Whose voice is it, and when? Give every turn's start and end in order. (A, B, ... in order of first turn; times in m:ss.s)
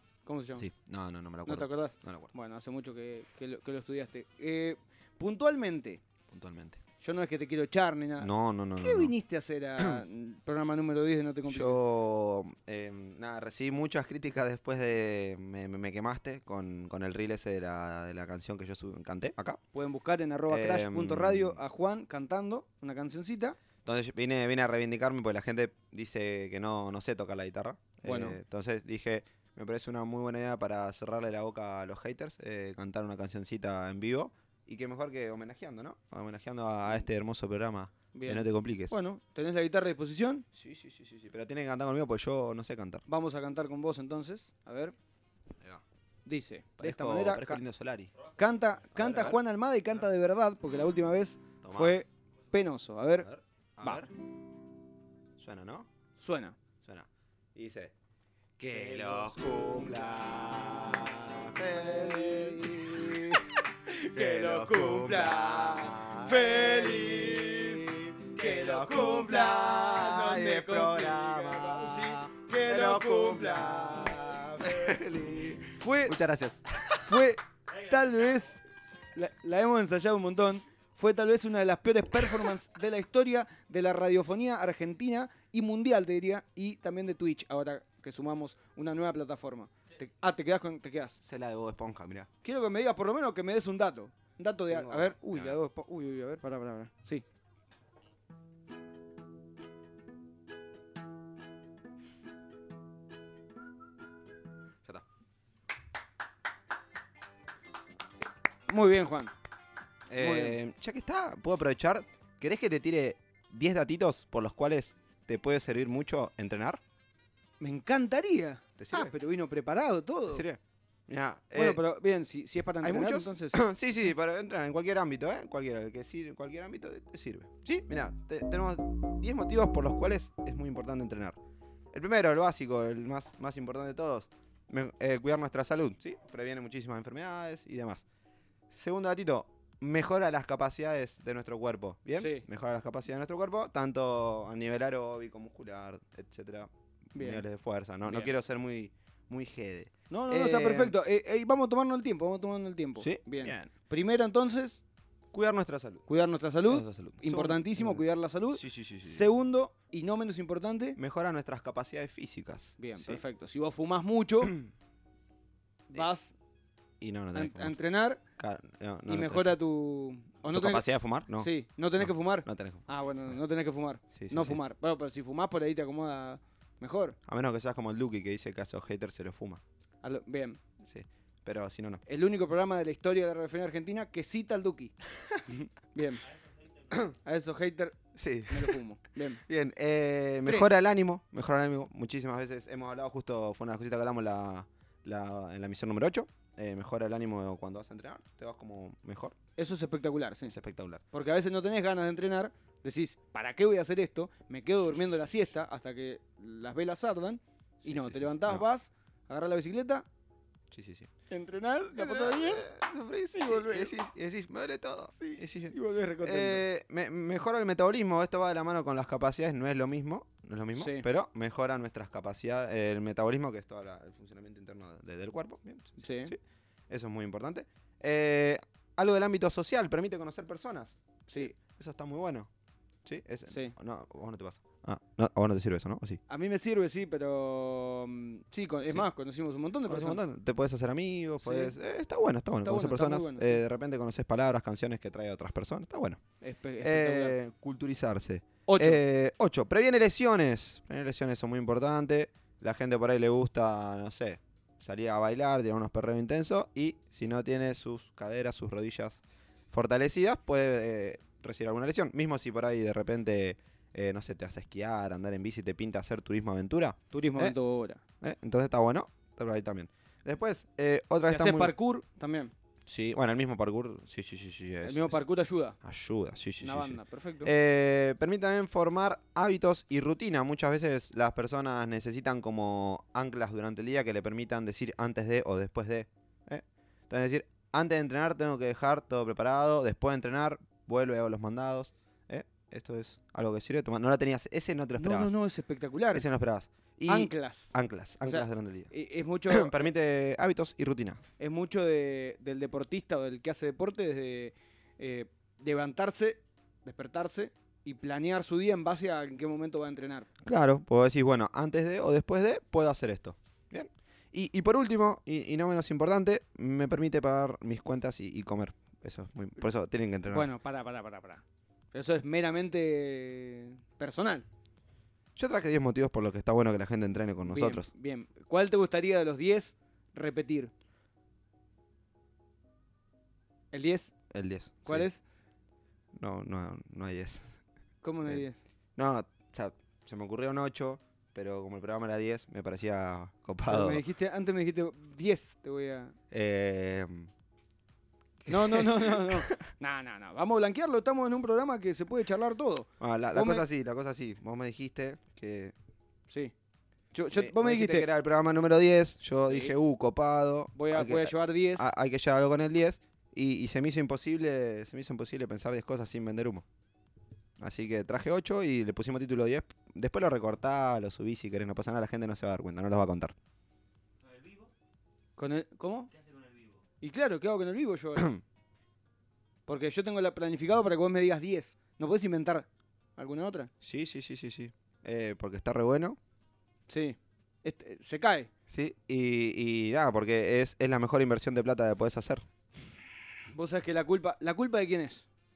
0:00.2-0:00.7 A
0:00.6-0:02.3 B
0:01.4-0:06.0 A
0:06.3-0:06.8 B
0:07.0-0:11.8 A
0:08.2-0:09.1 B
0:09.8-0:10.0 B
0:11.5-0:19.6 B
0:19.7-0:23.6 A
0:20.5-0:21.6 B
0:23.8-0:39.0 B
0:28.0-0:28.4 A
0:38.1-0:40.5 A
0:40.5-0:43.0 B
0:43.1-0:45.0 A
0:46.3-0:47.6 A
0:46.8-0:48.1 B
0:48.3-0:53.3 A
0:48.9-0:49.4 B
0:51.6-0:52.0 B
0:53.2-0:54.1 B
0:55.4-0:55.9 B
0:56.2-0:56.6 A
0:56.8-0:57.9 B
0:58.6-1:17.4 B
0:58.8-0:59.9 A
1:01.7-1:02.8 A
1:03.9-1:15.0 A
1:15.6-1:16.2 A
1:17.0-1:18.6 A
1:19.2-1:31.2 A
1:22.2-1:22.5 B
1:31.2-1:32.3 B
1:32.4-1:37.2 A
1:34.7-1:35.6 B
1:48.7-1:49.3 A
1:50.1-1:56.8 B
1:50.2-1:50.6 A
1:57.6-2:00.5 A
1:58.8-1:59.1 B
2:00.3-2:01.8 B
2:01.5-2:03.6 A
2:02.8-2:11.4 B
2:11.9-2:18.0 B
2:18.7-2:31.0 B
2:22.2-2:22.4 A
2:27.2-2:27.4 A
2:28.0-2:28.4 A
2:30.1-2:34.8 A
2:33.0-2:33.7 B
2:35.3-2:36.0 B
2:36.1-2:41.0 A
2:36.6-2:39.3 B
2:41.0-2:43.2 B
2:42.8-2:44.6 A
2:45.9-2:46.3 A
2:47.0-2:47.8 B
2:47.3-2:48.2 A
2:48.4-2:49.6 B
2:49.1-2:50.9 A
2:50.5-2:53.4 B
2:51.4-2:57.2 A
2:54.1-2:54.6 B
2:57.3-2:59.6 B
3:00.0-3:00.6 A
3:00.8-3:02.0 B
3:02.1-3:06.3 A
3:06.9-3:08.0 A
3:08.2-3:08.8 B
3:08.5-3:09.4 A
3:09.4-3:19.4 B
3:10.5-3:10.8 A
3:19.6-3:20.6 A
3:20.5-3:21.0 B
3:21.1-3:30.0 A
3:27.8-3:28.6 B
3:30.7-3:31.1 B
3:31.3-3:32.7 A
3:31.9-3:46.4 B
3:33.3-3:34.0 A
3:35.2-3:36.6 A
3:40.8-3:41.1 A
3:46.0-3:46.4 A
3:46.9-3:52.5 B
3:51.3-3:51.6 A
3:53.0-3:56.2 B
3:53.5-3:53.8 A
3:56.3-4:00.2 A
3:59.9-4:06.2 B
4:01.4-4:01.8 A
4:02.6-4:03.6 A
4:06.4-4:07.4 A
4:06.8-4:19.2 B
4:08.7-4:09.0 A
4:19.7-4:27.6 B
4:27.1-4:28.0 A
4:28.2-4:31.7 B
4:31.3-4:32.5 A
4:32.9-4:35.2 B
4:34.8-4:35.8 A
4:35.8-4:55.3 B
4:36.6-4:37.5 A
4:55.0-4:56.3 A
4:56.1-4:58.9 B
4:57.1-4:57.7 A
4:58.3-4:59.9 A
4:59.5-5:01.2 B
5:01.4-5:10.3 A
5:10.4-5:20.5 B
5:20.3-5:24.5 A
5:25.4-5:27.9 B
5:27.4-5:30.7 A
5:33.7-5:34.1 A
5:34.3-5:35.1 B
5:34.8-5:35.2 A
5:36.2-5:37.5 B
5:38.0-5:38.6 A
5:39.0-5:44.0 B
5:43.7-5:46.2 A
5:46.3-5:47.3 B
5:48.5-5:49.6 B
5:48.5-5:53.7 A
5:53.0-5:55.7 B
5:56.3-5:56.5 A
5:57.1-5:58.1 A
5:57.3-6:06.6 B
5:59.5-5:59.7 A
6:00.8-6:01.9 A
6:07.6-6:13.4 B
6:15.4-6:16.1 A
6:17.0-6:18.4 A
6:18.2-6:18.4 B
6:19.7-6:23.7 A
6:23.8-6:26.2 B
6:26.9-6:28.5 A
6:28.7-6:32.4 B
6:33.5-6:35.3 A